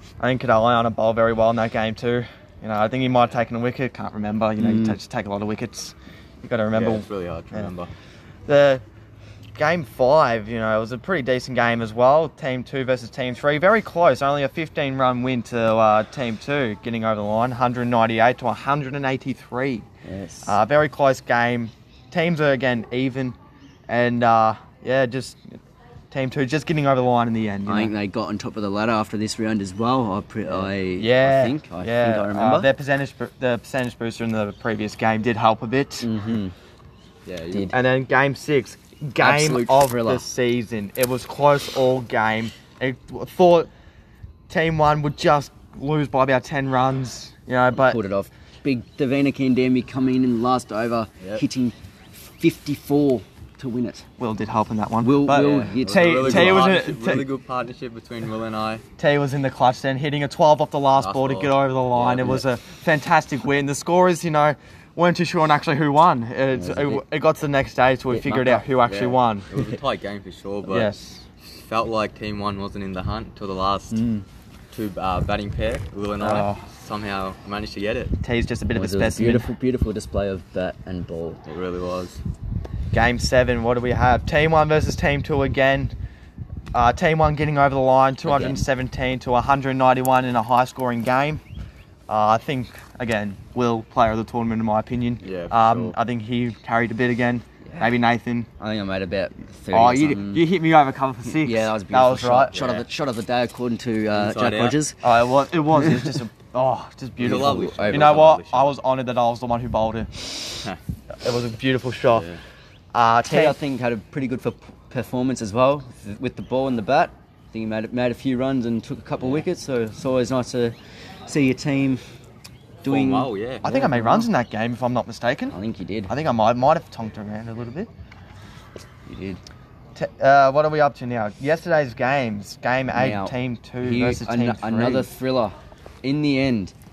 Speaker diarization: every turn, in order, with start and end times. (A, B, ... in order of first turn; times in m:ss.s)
0:00.2-0:07.7 A
0:04.6-0:05.0 B
0:06.7-0:07.9 C
0:08.5-0:08.8 A
0:09.6-0:19.8 A
0:20.0-0:20.6 B
0:20.4-0:23.4 A
0:23.9-0:25.4 A
0:26.1-0:27.9 A
0:27.7-0:32.7 B
0:30.5-0:36.1 A
0:36.0-0:36.5 B
0:37.3-0:37.8 C
0:37.5-0:37.8 B
0:37.7-0:43.7 A
0:39.2-0:40.2 B
0:44.5-0:48.0 A
0:47.8-0:51.8 B
0:52.3-0:54.0 B
0:54.2-0:57.3 A
0:55.0-0:56.7 B
0:55.3-0:58.8 C
0:59.0-1:09.5 A
1:01.0-1:02.4 C
1:06.6-1:07.0 B
1:08.1-1:08.7 B
1:08.8-1:10.9 C
1:10.7-1:11.2 A
1:11.5-1:14.0 C
1:13.9-1:14.2 B
1:14.7-1:18.2 C
1:16.2-1:16.6 A
1:18.2-1:19.5 A
1:18.7-1:21.4 B
1:21.5-1:22.2 C
1:22.9-1:25.9 A
1:26.7-1:31.4 A
1:28.2-1:28.6 B
1:32.1-1:38.5 A
1:35.2-1:36.0 C
1:37.7-1:37.9 B
1:38.6-1:40.4 B
1:39.7-1:42.6 A
1:41.3-1:45.1 B
1:42.5-1:42.9 C
1:44.1-1:44.8 C
1:45.0-1:50.4 A
1:45.8-1:46.1 B
1:47.2-1:48.8 C
1:47.2-1:48.3 B
1:51.2-1:52.3 A
1:52.1-1:52.4 C
1:52.9-1:53.6 A
1:53.3-2:00.8 B
2:01.3-2:02.0 B
2:02.8-2:04.3 B
2:02.8-2:03.7 C
2:03.6-2:05.6 A
2:05.5-2:06.1 B
2:06.1-2:07.9 A
2:09.1-2:09.4 B
2:10.0-2:15.1 A
2:12.9-2:16.7 B